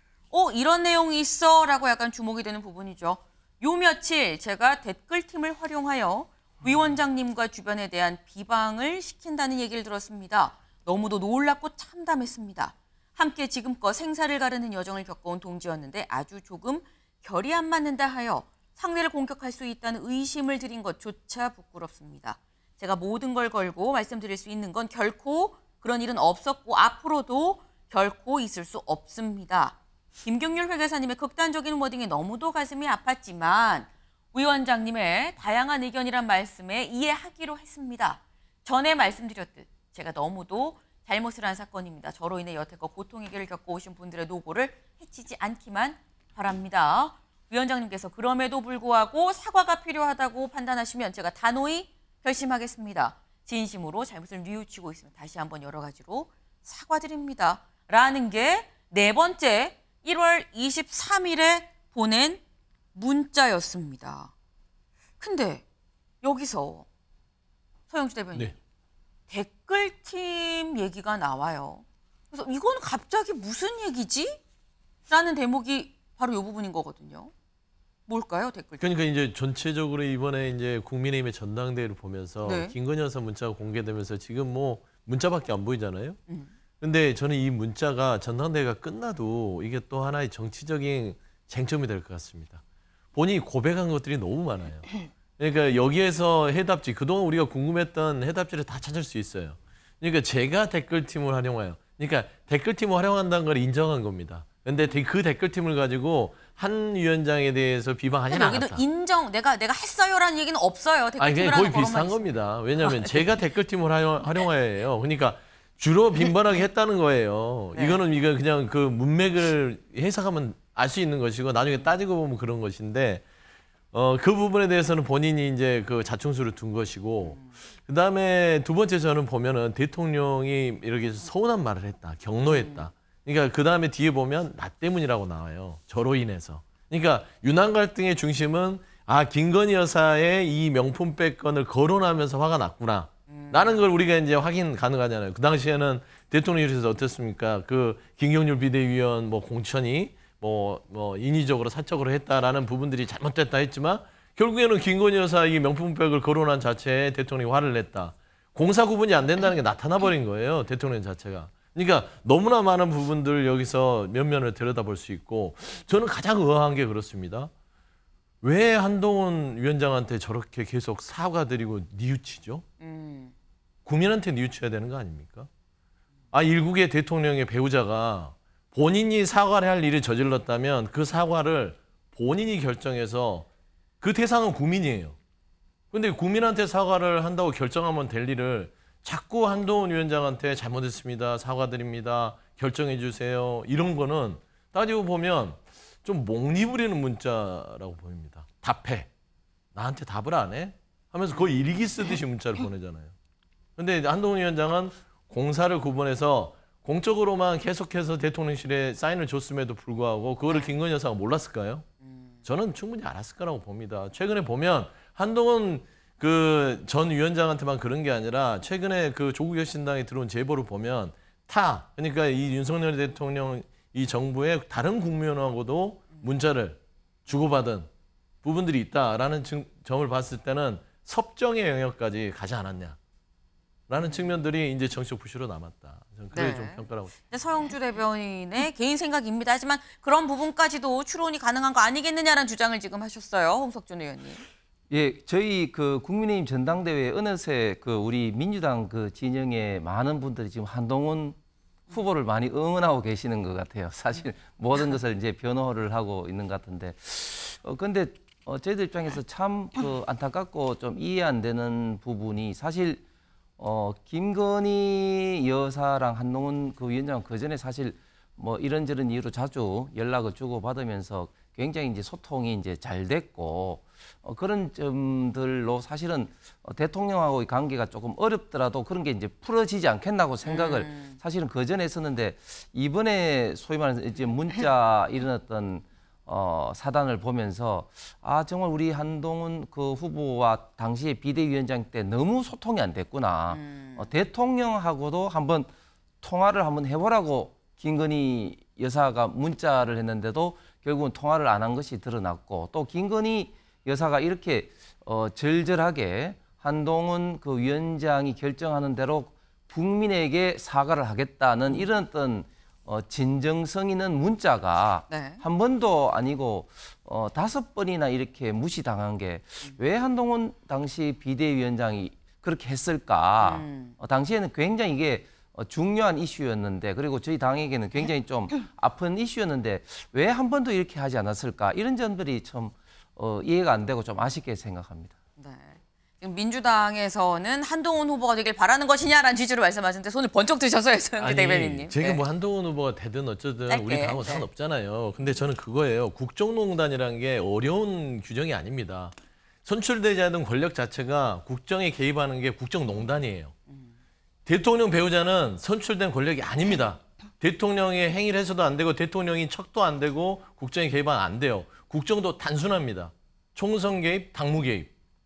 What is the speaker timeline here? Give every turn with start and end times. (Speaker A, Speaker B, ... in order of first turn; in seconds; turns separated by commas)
Speaker A: 0.3-62.4, Speaker A: 63.0-64.3, Speaker A: 65.2-65.6, Speaker A: 66.2-66.9, Speaker A: 67.9-68.5, Speaker A: 69.3-74.4, Speaker A: 75.1-77.3, Speaker A: 78.1-78.8, Speaker B: 78.8-86.2, Speaker A: 82.4-82.7, Speaker B: 86.8-92.6, Speaker B: 93.1-108.8, Speaker A: 108.3-113.2, Speaker B: 111.2-123.2, Speaker A: 117.7-118.0, Speaker B: 123.9-167.5, Speaker A: 127.2-127.5, Speaker A: 132.4-132.9, Speaker A: 143.3-143.8, Speaker B: 168.4-172.6, Speaker A: 172.8-173.3, Speaker B: 173.9-175.5, Speaker B: 176.3-183.5, Speaker B: 184.0-185.2, Speaker B: 185.9-199.1, Speaker B: 199.7-203.1, Speaker B: 203.8-211.8, Speaker B: 212.4-227.9, Speaker B: 228.4-233.0, Speaker B: 233.9-237.3, Speaker A: 234.0-234.3, Speaker A: 236.3-244.4, Speaker C: 244.9-251.4, Speaker C: 251.9-263.0, Speaker C: 263.6-295.7, Speaker A: 280.4-281.2, Speaker A: 293.5-294.1, Speaker C: 296.2-335.1, Speaker A: 315.1-315.4, Speaker A: 323.4-323.9, Speaker A: 335.4-342.2, Speaker B: 341.2-349.1, Speaker A: 343.7-344.5, Speaker B: 349.6-353.5, Speaker B: 354.5-364.9